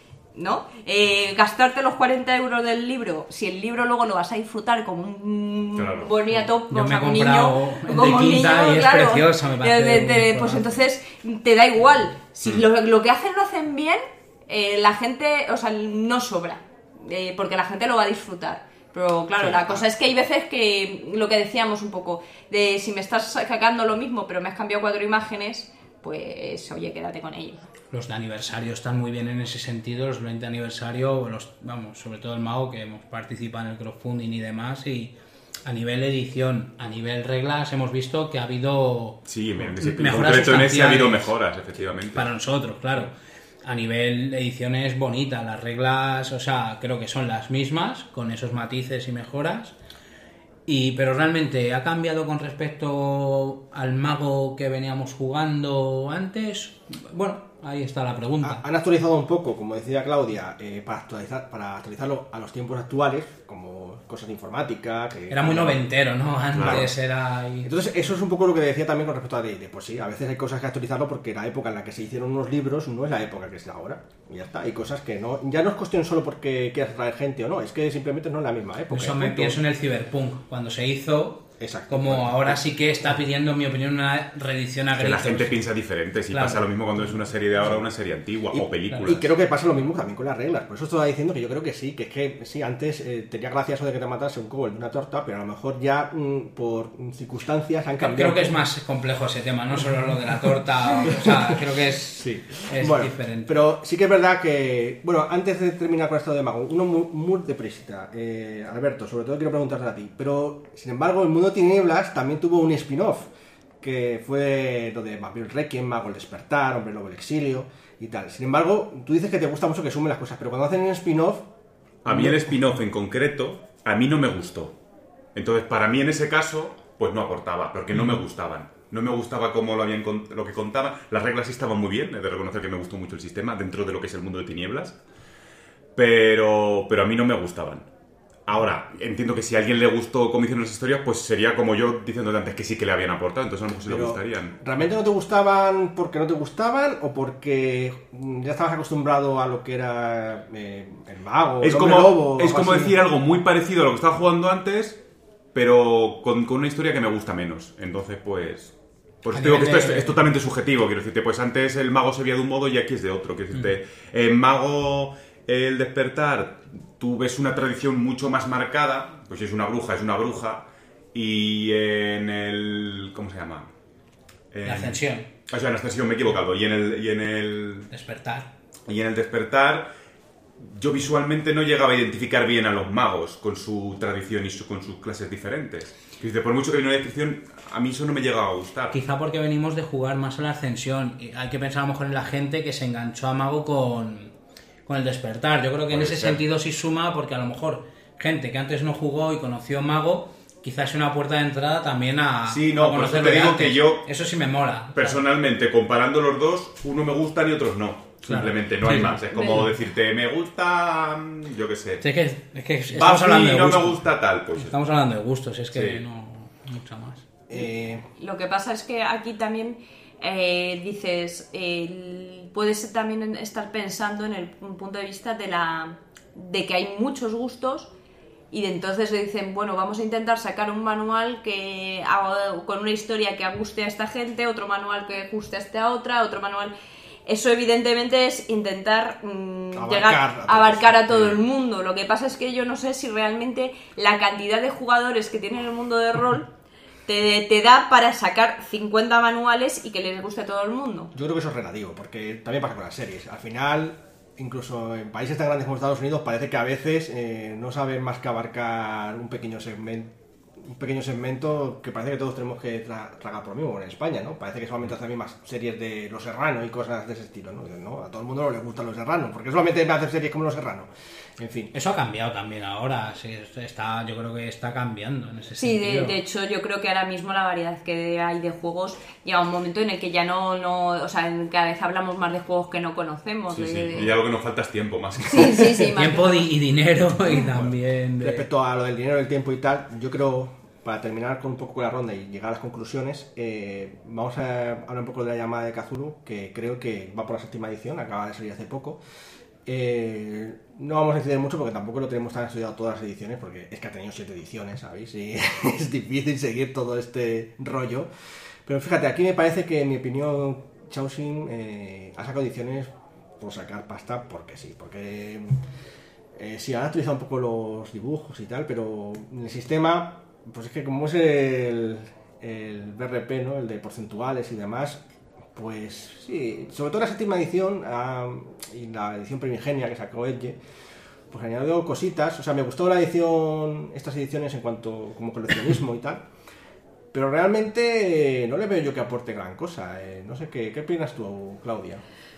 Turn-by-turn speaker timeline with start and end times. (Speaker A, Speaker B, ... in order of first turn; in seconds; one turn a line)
Speaker A: 0.3-27.6
Speaker B: 5.8-6.1
Speaker C: 6.7-10.8
Speaker D: 19.4-19.8
Speaker C: 27.9-35.1
Speaker C: 35.6-39.2
Speaker B: 39.2-42.3
Speaker C: 39.8-41.3
Speaker C: 42.1-49.8
Speaker C: 50.7-58.6
Speaker D: 58.4-65.8
Speaker C: 65.3-67.7
Speaker B: 66.5-66.9
Speaker D: 66.6-66.9
Speaker D: 67.6-79.6
Speaker C: 78.9-85.6
Speaker D: 81.6-82.7
Speaker B: 84.9-89.3
Speaker C: 86.3-86.6
Speaker D: 88.5-98.6
Speaker C: 98.0-103.5
Speaker D: 101.0-113.3
Speaker D: 113.8-121.5
Speaker B: 122.0-124.8
Speaker D: 122.1-122.4
Speaker B: 125.3-135.0
Speaker B: 135.9-137.9
Speaker B: 138.5-144.5
Speaker D: 143.8-153.0
Speaker B: 151.6-155.0
Speaker B: 155.5-173.7
Speaker C: 159.3-160.2
Speaker B: 174.5-177.9
Speaker C: 174.6-175.3
Speaker C: 177.9-178.5
Speaker B: 178.9-179.9
Speaker B: 180.6-189.0
Speaker C: 188.9-194.3
Speaker C: 194.8-205.2
Speaker B: 195.9-196.4
Speaker B: 202.5-204.1
Speaker B: 204.9-212.0
Speaker C: 208.3-209.6
Speaker A: 209.3-209.6
Speaker C: 212.0-214.0
Speaker B: 212.9-214.8
Speaker C: 214.5-217.2
Speaker B: 215.7-216.0
Speaker D: 217.5-218.1
Speaker A: 218.2-227.9
Speaker A: 228.5-236.7
Speaker A: 237.2-246.5
Speaker D: 239.7-241.0
Speaker A: 247.1-251.1
Speaker D: 251.1-260.1
Speaker D: 260.6-271.7
Speaker C: 271.7-276.1
Speaker A: 275.6-284.2
Speaker B: 283.5-285.6
Speaker A: 285.2-286.5
Speaker C: 285.9-288.4
Speaker D: 287.3-299.0
Speaker D: 299.6-308.1
Speaker D: 308.6-315.6
Speaker D: 316.3-325.0
Speaker D: 325.5-330.6
Speaker D: 331.3-336.2
Speaker D: 337.1-342.0